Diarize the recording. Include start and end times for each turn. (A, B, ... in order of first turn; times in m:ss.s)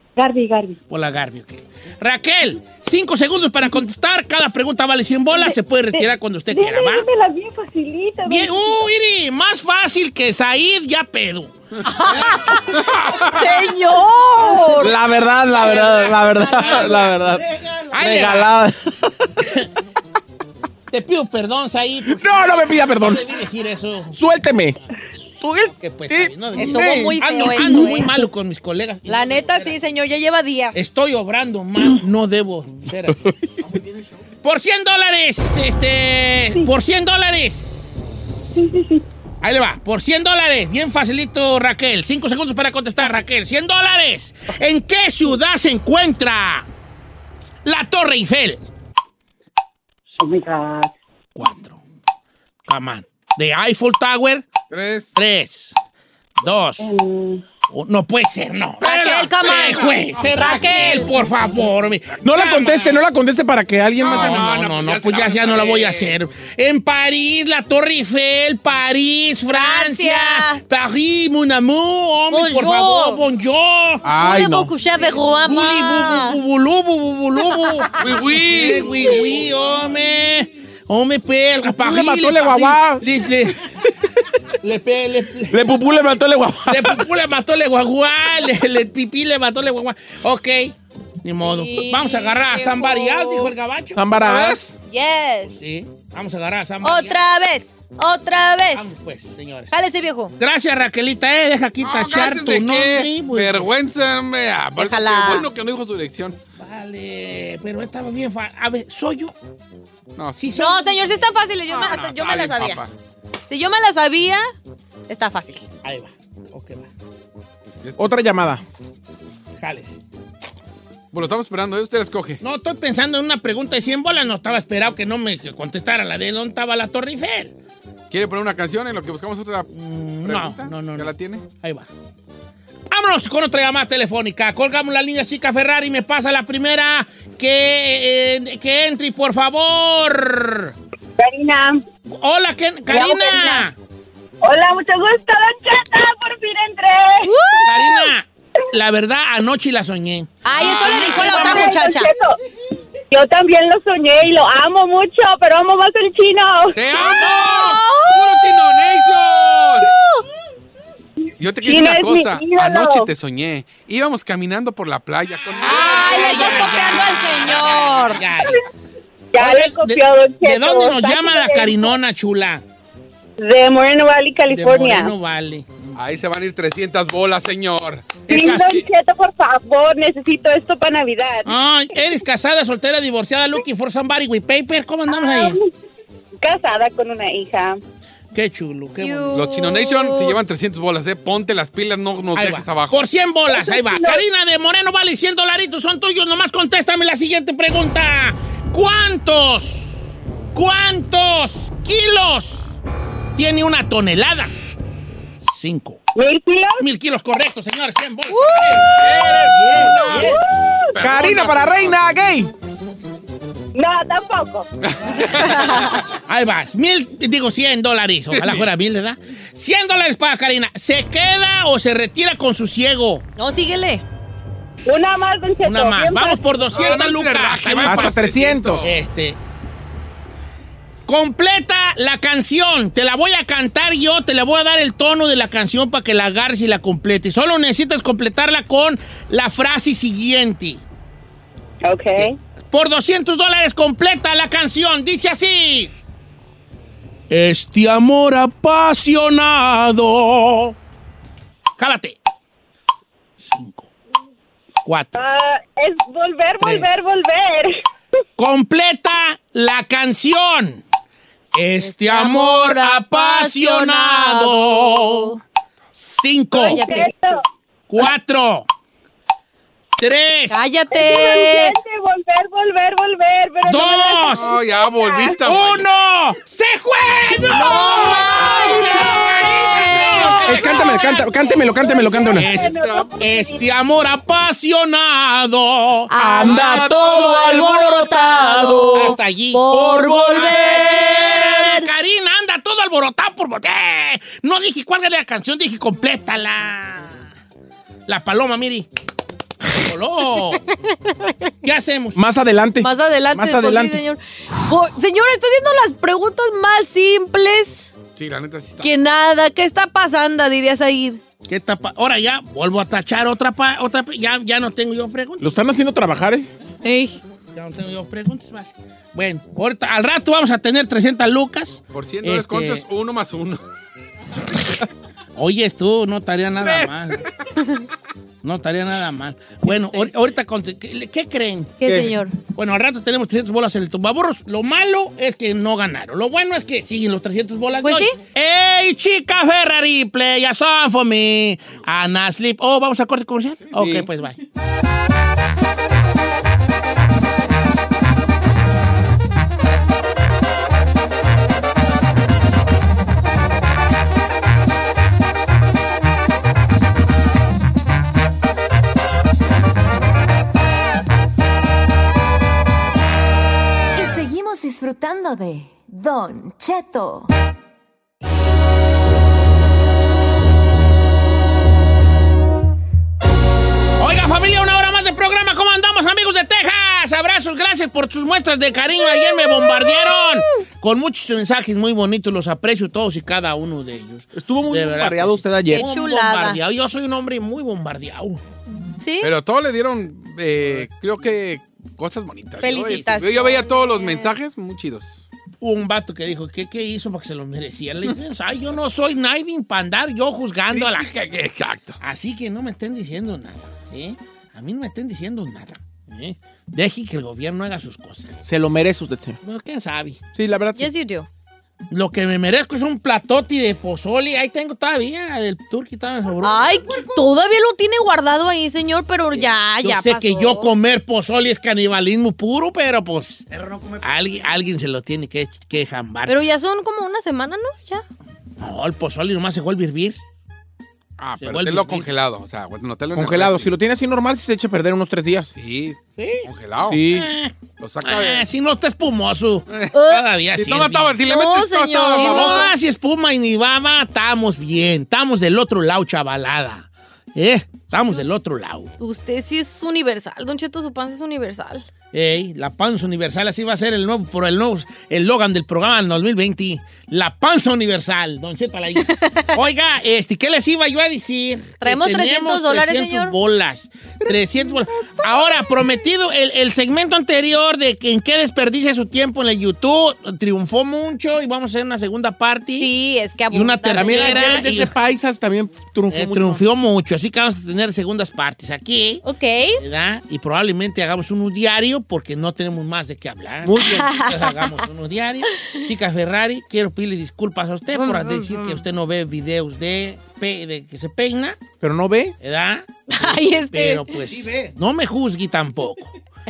0:00.2-0:00.8 A
0:00.9-0:07.0 B
0:05.4-0:08.8 A
0:08.2-0:11.6 B
0:11.8-0:14.9 C
0:12.9-0:13.3 D
0:14.8-0:18.8 E
0:15.5-0:17.4 B
0:17.9-0:18.5 B
0:20.9-0:24.2 B
0:22.1-0:23.2 E
0:24.1-0:24.8 E
0:25.4-0:27.2 E
0:25.7-0:29.8 B
0:26.5-0:28.2 C
0:29.1-0:30.9 C
0:30.7-0:33.2 B
0:33.1-0:33.3 E
0:34.4-0:38.6 B
0:38.6-0:39.0 A
0:39.4-0:46.7 B
0:47.6-0:48.6 B
0:50.2-0:50.9 A
0:51.3-0:51.8 B
0:52.7-0:54.4 B
0:54.7-0:55.1 D
0:55.1-0:55.7 B
0:56.4-0:56.9 B
0:56.8-0:57.4 A
0:57.7-1:03.0 B
0:58.8-1:01.1 C
0:59.4-1:00.9 D
1:02.2-1:04.5 E
1:04.0-1:06.1 D
1:04.0-1:14.1 B
1:09.5-1:10.6 C
1:12.3-1:13.2 C
1:14.0-1:14.7 E
1:14.1-1:16.4 C
1:15.4-1:23.6 B
1:18.0-1:18.9 D
1:21.7-1:23.0 E
1:24.6-1:25.6 B
1:25.5-1:27.1 E
1:26.7-1:34.1 B
1:31.4-1:33.5 C
1:33.9-1:34.7 E
1:34.2-1:34.7 D
1:34.9-1:35.5 C
1:35.4-1:37.2 B
1:36.8-1:38.9 C
1:38.7-1:39.7 B
1:39.7-1:40.3 C
1:40.4-1:43.7 B
1:41.8-1:46.4 D
1:44.8-1:45.5 C
1:46.6-1:49.3 B
1:50.2-1:50.4 D
1:50.4-1:51.3 B
1:50.5-1:52.8 C
1:51.7-1:52.9 D
1:53.5-1:54.5 C
1:55.1-1:55.7 C
1:55.7-1:56.9 B
1:57.8-1:58.1 D
1:58.0-1:58.6 E
1:59.6-2:00.0 B
2:01.1-2:02.4 D
2:02.4-2:07.5 B
2:08.1-2:09.7 D
2:09.7-2:11.9 B
2:10.2-2:11.4 D
2:12.9-2:20.7 B
2:21.2-2:21.8 F
2:22.1-2:23.7 B
2:22.9-2:23.6 F
2:24.4-2:27.3 F
2:27.2-2:28.1 C
2:27.6-2:31.5 B
2:30.4-2:32.1 C
2:30.9-2:32.3 F
2:33.1-2:36.7 F
2:36.7-2:39.9 D
2:37.0-2:38.5 C
2:37.2-2:37.5 B
2:39.9-2:40.2 C
2:41.4-2:46.7 D
2:41.6-2:43.1 F
2:45.6-2:48.6 B
2:45.6-2:48.2 C
2:49.3-2:51.9 F
2:49.4-2:52.6 B
2:53.4-2:55.1 F
2:54.5-2:55.6 B
2:55.9-2:58.8 D
2:58.3-2:58.8 B
2:58.3-3:01.5 F
3:01.4-3:05.6 B
3:05.1-3:05.6 F
3:06.4-3:07.8 F
3:08.3-3:09.4 B
3:09.0-3:10.4 C
3:09.3-3:13.0 D
3:12.3-3:22.7 B
3:13.5-3:14.2 F
3:23.4-3:24.5 B
3:25.4-3:26.0 B
3:26.2-3:26.8 F
3:26.8-3:30.3 B
3:28.3-3:28.8 C
3:28.9-3:30.4 D
3:30.1-3:30.9 F
3:30.9-3:32.0 D
3:31.0-3:32.5 E
3:33.7-3:34.7 F
3:34.9-3:35.6 D
3:35.6-3:36.0 C
3:36.2-3:43.2 B
3:38.3-3:38.7 D
3:43.4-3:44.0 C
3:44.8-3:46.4 F
3:45.6-3:49.4 B
3:46.7-3:48.9 D
3:47.8-3:48.9 E
3:51.1-4:00.8 B
4:01.9-4:02.2 F
4:02.2-4:05.9 B
4:07.3-4:10.7 B
4:11.8-4:12.2 B
4:13.4-4:13.9 B
4:14.8-4:15.2 B
4:15.1-4:17.8 F
4:16.6-4:17.0 B
4:18.4-4:20.8 B
4:21.5-4:25.4 B
4:21.8-4:25.4 C
4:26.0-4:26.9 B
4:26.6-4:27.4 F
4:26.6-4:27.1 C
4:27.9-4:28.7 B
4:30.0-4:30.6 B
4:30.5-4:31.8 C
4:30.9-4:35.4 F
4:33.6-4:34.5 B
4:34.3-4:35.8 D
4:35.4-4:41.1 B
4:37.4-4:41.3 C
4:40.4-4:42.5 E
4:41.3-4:43.6 F
4:42.2-4:46.8 B
4:42.3-4:43.1 D
4:46.1-4:51.9 C
4:46.2-4:49.1 E
4:48.9-4:49.7 B
4:49.7-4:50.8 E
4:50.3-4:57.3 B
4:58.1-4:58.9 B
4:59.7-5:00.6 B
5:01.6-5:02.2 B
5:02.2-5:04.0 E
5:02.8-5:07.9 C
5:08.2-5:08.9 D
5:08.8-5:11.2 C
5:11.4-5:15.6 B
5:15.4-5:16.5 E
5:16.8-5:17.2 C
5:17.5-5:22.8 B
5:21.9-5:23.6 D
5:25.4-5:27.2 B
5:26.6-5:27.3 D
5:28.4-5:31.8 B
5:29.7-5:30.1 C
5:31.8-5:32.4 C
5:31.8-5:32.1 E
5:32.5-5:44.3 B
5:37.8-5:38.2 C
5:43.7-5:44.1 E
6:03.9-6:07.3 G
6:14.0-6:28.4 B
6:19.0-6:20.6 C
6:24.3-6:25.8 E
6:25.7-6:26.6 C
6:29.0-6:29.3 C
6:29.2-6:35.2 D
6:32.6-6:34.3 C
6:35.6-6:41.1 B
6:40.7-6:42.0 D
6:42.0-6:48.4 B
6:48.4-6:49.4 E
6:49.4-6:50.2 B
6:50.3-6:50.9 E
6:50.8-6:51.3 C
6:51.9-6:56.8 B
6:56.4-7:00.7 C
6:59.3-7:03.5 B
7:04.0-7:06.4 B
7:06.2-7:08.0 C
7:08.6-7:10.2 B
7:11.2-7:13.7 D
7:11.4-7:12.1 B
7:13.1-7:15.5 E
7:15.5-7:17.0 D
7:16.2-7:16.5 B
7:16.8-7:17.3 E
7:17.0-7:21.2 B
7:17.8-7:18.5 D
7:19.9-7:20.2 C
7:20.5-7:22.7 D
7:21.2-7:22.7 C
7:22.1-7:28.9 B
7:29.0-7:31.8 C
7:32.1-7:52.9 B
7:39.0-7:39.5 C
7:41.8-7:43.3 C
7:44.2-7:45.8 E
7:52.8-7:54.6 C
7:53.5-7:54.9 B
7:53.9-7:56.6 E
7:56.1-7:59.2 B
7:59.2-7:59.8 C
7:59.8-8:11.6 B
8:03.8-8:04.8 C
8:07.9-8:08.8 C
8:11.8-8:12.3 E
8:12.4-8:16.1 B
8:13.1-8:14.2 C